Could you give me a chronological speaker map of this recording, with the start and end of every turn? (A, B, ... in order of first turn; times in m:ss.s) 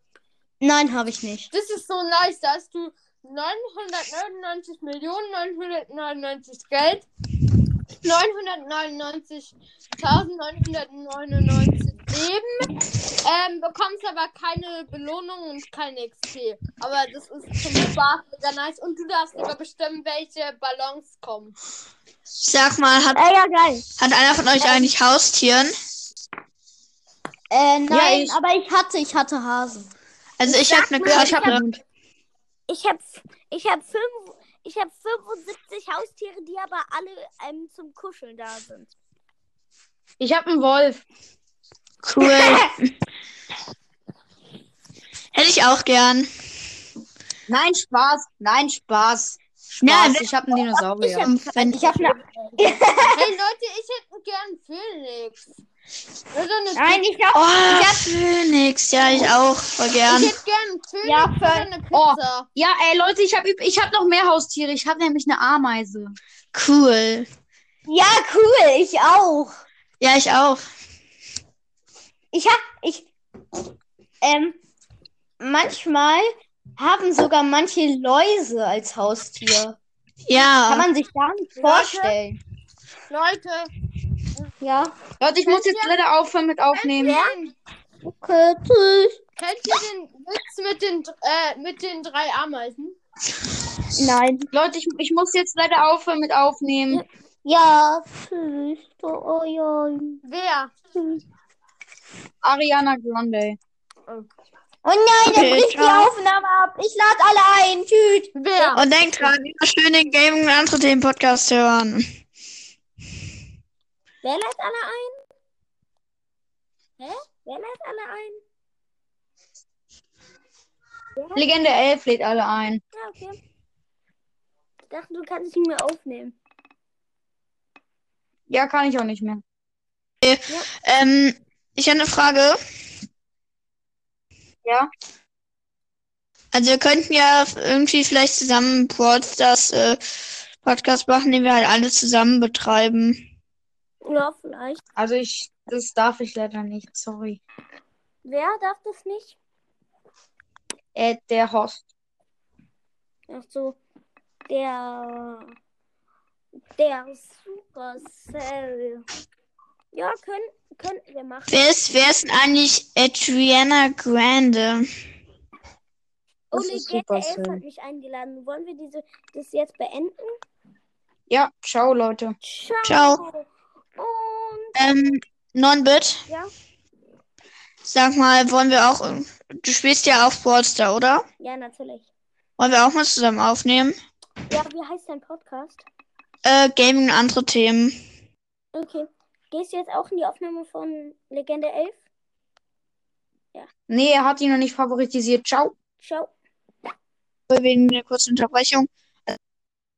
0:00.6-0:01.5 A
0:01.5-0:07.1 B
0:08.0-0:21.5 B
0:22.4-0:23.2 C
0:23.1-0:23.9 A
0:24.0-0:25.7 C
0:24.6-0:24.9 A
0:27.5-0:29.9 A
0:27.9-0:28.4 D
0:30.4-0:31.6 C
0:30.4-0:31.6 A
0:31.0-0:31.8 D
0:32.7-0:38.9 E
0:40.2-0:41.0 D
0:42.0-0:42.9 C
0:42.2-0:42.7 A
0:45.3-0:46.3 C
0:47.5-0:51.3 D
0:49.8-0:50.2 C
0:51.0-0:53.3 A
0:51.2-0:52.0 C
0:53.1-0:55.4 B
0:56.3-0:57.0 B
0:56.7-0:58.2 A
0:57.3-1:00.3 C
1:00.1-1:02.5 B
1:01.0-1:01.7 A
1:01.9-1:06.2 D
1:06.5-1:07.3 C
1:07.9-1:09.6 A
1:10.0-1:10.6 C
1:12.3-1:13.1 A
1:14.2-1:14.6 A
1:15.4-1:19.8 A
1:20.3-1:20.9 C
1:20.6-1:22.4 A
1:21.6-1:22.2 B
1:23.1-1:23.7 B
1:24.6-1:25.0 A
1:25.2-1:27.2 D
1:25.4-1:26.0 B
1:26.7-1:27.5 B
1:27.1-1:27.3 E
1:28.0-1:29.2 A
1:29.4-1:33.0 B
1:34.0-1:34.4 E
1:34.5-1:37.0 D
1:36.9-1:40.2 E
1:40.2-1:40.7 B
1:42.4-1:43.6 D
1:44.8-1:48.3 A
1:45.3-1:46.1 C
1:48.3-1:48.8 B
1:48.6-1:49.3 E
1:48.7-1:52.0 C
1:54.2-1:55.1 E
1:57.0-1:58.4 E
2:01.2-2:01.4 E
2:01.3-2:02.8 D
2:02.9-2:03.4 E
2:04.9-2:06.4 E
2:08.5-2:09.4 D
2:10.2-2:12.6 C
2:16.5-2:20.0 C
2:20.6-2:23.2 C
2:24.0-2:24.8 E
2:25.0-2:27.4 D
2:28.2-2:29.4 E
2:30.9-2:31.9 D
2:33.3-2:33.8 E
2:34.5-2:35.5 E
2:36.8-2:39.0 E
2:39.9-2:41.6 E
2:41.5-2:44.9 C
2:46.5-2:50.4 E
2:46.5-2:47.6 D
2:51.3-2:52.4 D
2:52.4-2:53.4 E
2:52.8-2:53.2 C
2:54.0-2:55.0 E
2:54.8-2:56.2 C
2:57.8-3:01.2 C
3:01.4-3:02.1 E
3:02.6-3:04.0 C
3:04.5-3:05.8 E
3:06.4-3:07.9 C
3:08.7-3:12.0 E
3:13.9-3:15.7 D
3:16.0-3:16.3 E
3:17.5-3:19.4 C